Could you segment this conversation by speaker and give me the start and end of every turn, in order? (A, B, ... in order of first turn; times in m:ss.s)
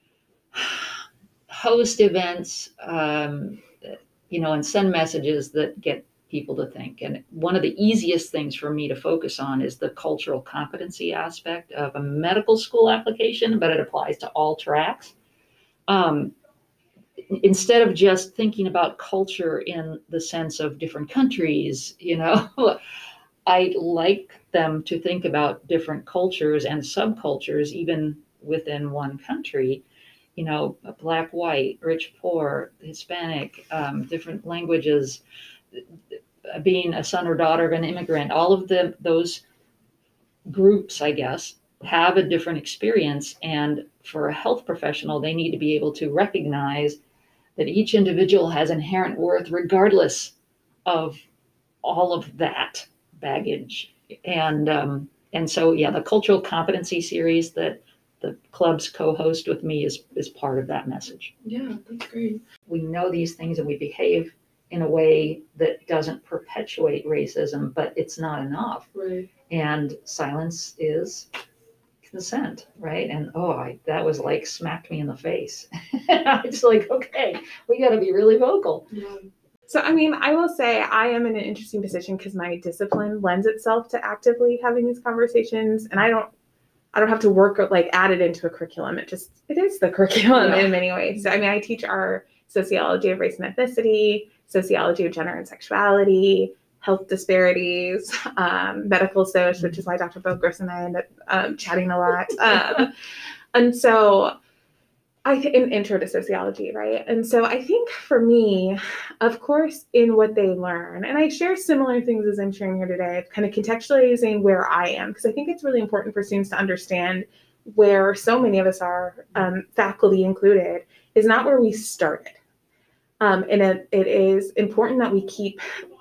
0:00.5-0:15.1 A
0:15.9-0:16.3 A
0:17.3-0:22.8 A
0:23.4-0:29.8 A
0:30.4-0:35.2 A
0:35.7-0:39.4 A
0:40.4-0:47.0 A
0:47.6-0:50.3 A
0:50.8-0:51.2 A
0:51.8-1:01.3 A
1:01.4-1:02.4 B
1:02.7-1:08.9 A
1:08.9-1:09.3 B
1:09.5-1:11.3 A
1:12.0-1:18.8 A
1:18.9-1:19.3 B
1:19.7-1:26.3 C
1:26.9-1:42.9 C
1:30.4-1:30.7 B
1:43.5-1:44.3 C
1:45.2-2:02.4 C
2:03.2-2:05.6 C